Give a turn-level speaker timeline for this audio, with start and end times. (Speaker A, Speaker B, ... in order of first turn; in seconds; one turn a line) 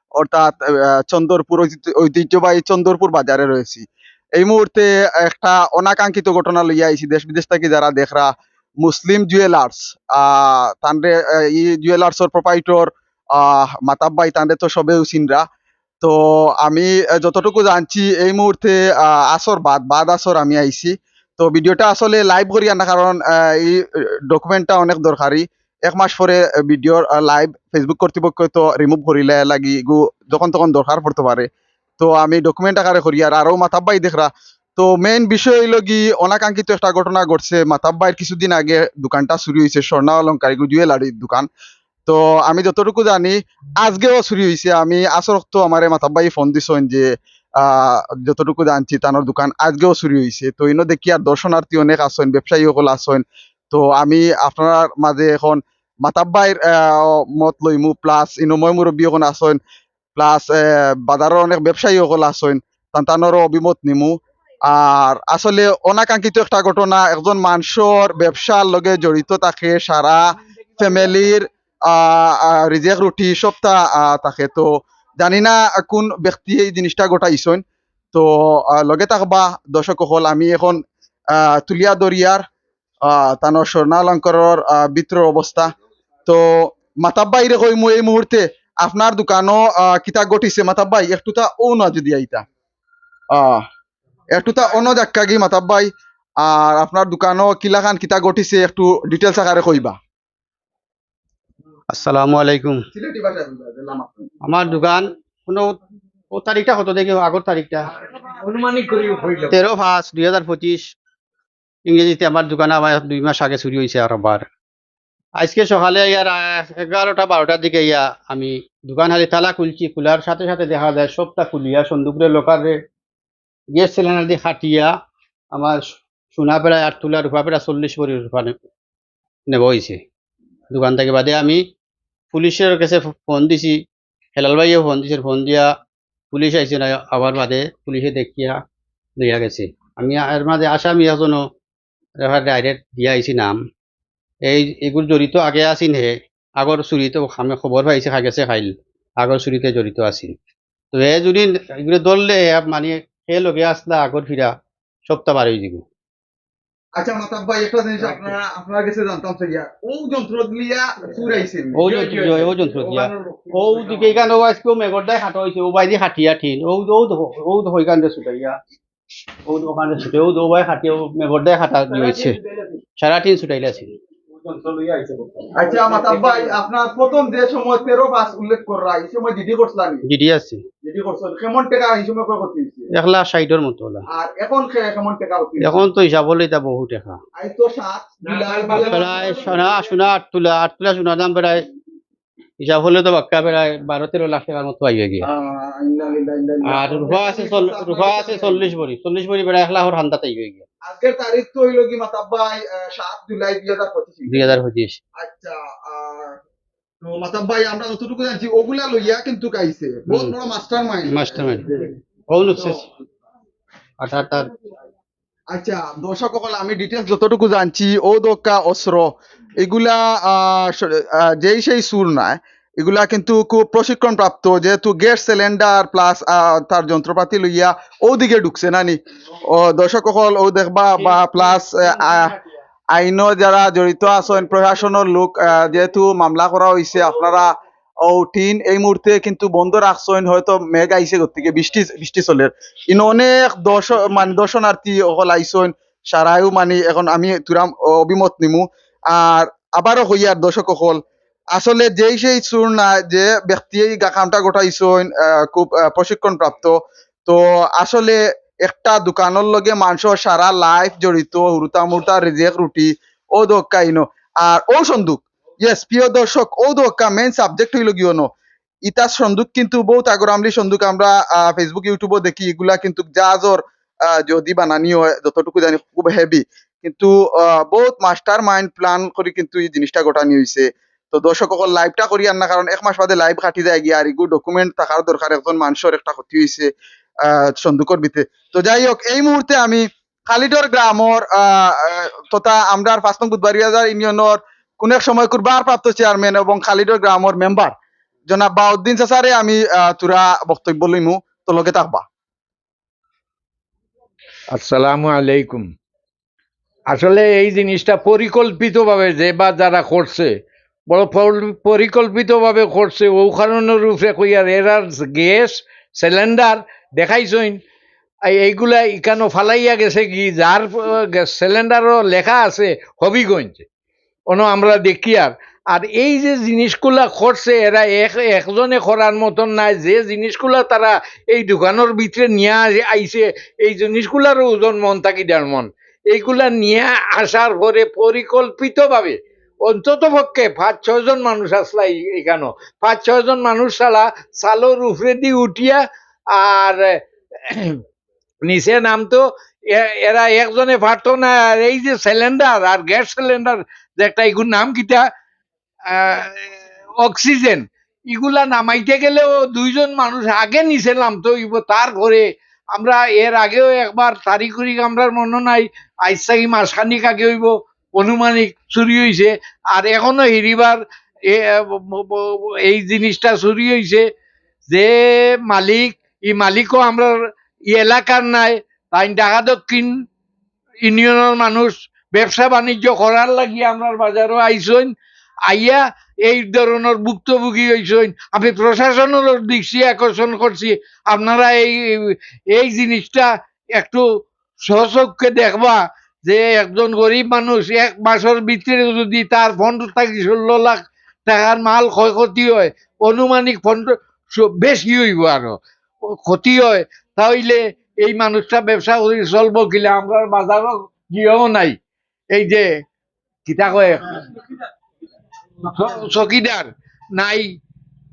Speaker A: 0.2-3.9
Speaker A: 4.4-8.3
Speaker A: 8.8-15.4
Speaker A: 16.0-31.5
Speaker A: 32.0-41.5
Speaker A: 42.1-47.1
Speaker A: 47.6-59.6
Speaker A: 60.2-64.1
Speaker A: 64.7-70.2
Speaker A: 70.8-77.6
Speaker A: 78.1-80.8
Speaker A: 81.3-82.4
Speaker A: 83.0-85.7
Speaker A: 86.3-92.4
Speaker A: 93.3-93.6
Speaker A: 94.3-100.0
Speaker B: 101.9-102.8
Speaker A: 102.9-104.3
Speaker B: 104.4-105.8
Speaker B: 106.3-107.9
Speaker C: 108.2-109.6
Speaker B: 109.5-110.9
Speaker B: 111.9-114.5
Speaker B: 115.4-122.8
Speaker B: 123.8-124.9
Speaker B: 125.5-125.8
Speaker B: 126.3-128.6
Speaker B: 129.5-130.0
Speaker B: 130.7-131.6
Speaker B: 132.3-133.8
Speaker B: 134.4-135.7
Speaker B: 136.3-138.6
Speaker B: 139.2-141.4
Speaker B: 142.2-143.6
Speaker B: 144.5-150.3
Speaker B: 150.9-155.8
Speaker A: 156.9-162.5
Speaker B: 161.7-168.6
Speaker B: 169.5-172.4
Speaker B: 173.0-173.9
Speaker A: 175.6-180.0
Speaker B: 180.1-180.6
Speaker A: 180.8-182.9
Speaker B: 182.9-184.0
Speaker A: 184.1-185.8
Speaker B: 185.6-187.2
Speaker A: 187.4-189.4
Speaker C: 188.3-189.5
Speaker B: 188.8-191.7
Speaker B: 192.6-195.3
Speaker A: 195.2-198.7
Speaker B: 196.7-200.7
Speaker A: 200.8-204.5
Speaker B: 204.3-205.0
Speaker A: 205.2-206.4
Speaker A: 207.0-211.9
Speaker B: 210.1-210.3
Speaker B: 211.1-211.7
Speaker B: 212.3-212.9
Speaker B: 214.0-214.5
Speaker A: 215.5-229.0
Speaker A: 229.5-232.4
Speaker A: 232.9-237.5
Speaker A: 238.1-251.0
Speaker A: 251.6-256.8
Speaker A: 257.3-268.3
Speaker A: 268.9-286.7
Speaker A: 287.2-297.7
Speaker A: 298.3-302.0
Speaker C: 304.5-305.7
Speaker C: 306.9-310.3
Speaker C: 310.9-317.6
Speaker C: 318.3-323.6
Speaker C: 324.3-347.8
Speaker C: 348.4-355.0
Speaker C: 355.9-374.1
Speaker C: 374.7-377.1
Speaker C: 377.7-379.9
Speaker C: 380.8-384.9
Speaker C: 385.5-394.0
Speaker C: 394.6-405.6
Speaker C: 406.2-411.8
Speaker C: 412.3-412.7
Speaker C: 413.5-414.4
Speaker C: 415.7-417.5